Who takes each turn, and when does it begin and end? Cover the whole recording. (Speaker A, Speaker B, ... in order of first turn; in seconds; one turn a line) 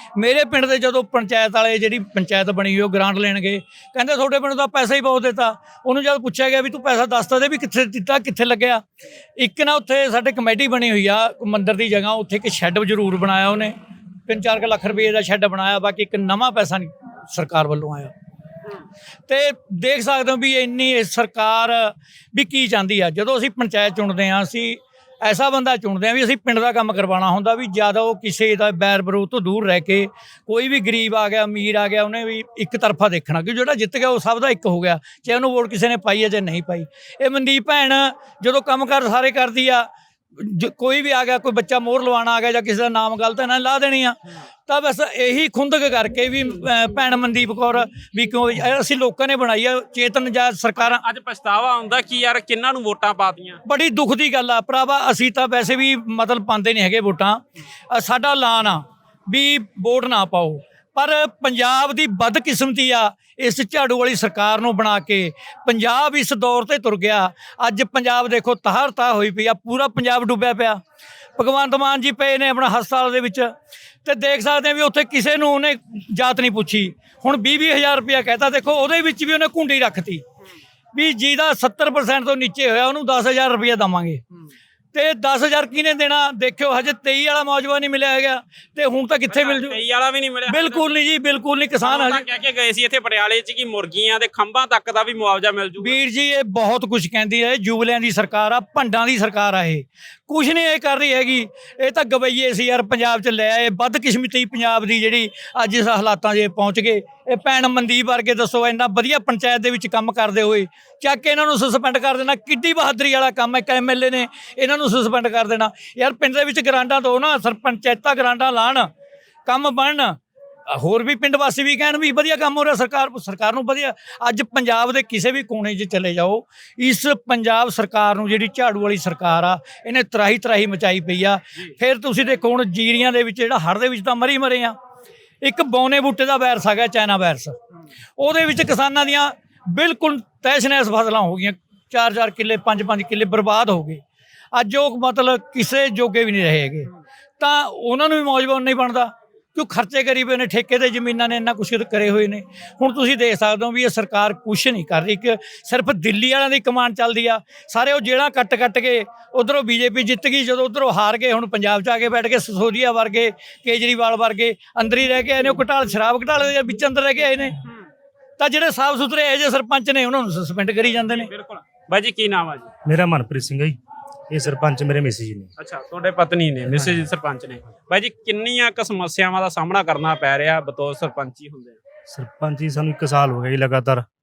Speaker A: 0.1-8.8
Speaker A: 9.4-13.8
Speaker A: 14.3-18.1
Speaker A: 19.3-51.0
Speaker B: 50.8-53.6
Speaker A: 53.6-70.8
Speaker A: 71.4-73.5
Speaker A: 74.0-80.2
Speaker A: 80.9-84.2
Speaker A: 84.9-89.8
Speaker B: 89.3-90.9
Speaker A: 90.5-92.2
Speaker B: 91.8-96.0
Speaker A: 95.8-118.9
Speaker A: 119.5-120.2
Speaker A: 120.7-134.8
Speaker A: 135.4-137.6
Speaker A: 138.2-144.0
Speaker A: 144.5-167.5
Speaker A: 168.4-171.3
Speaker B: 171.1-172.7
Speaker C: 172.8-173.8
Speaker C: 174.3-175.5
Speaker B: 175.6-181.8
Speaker C: 182.1-184.0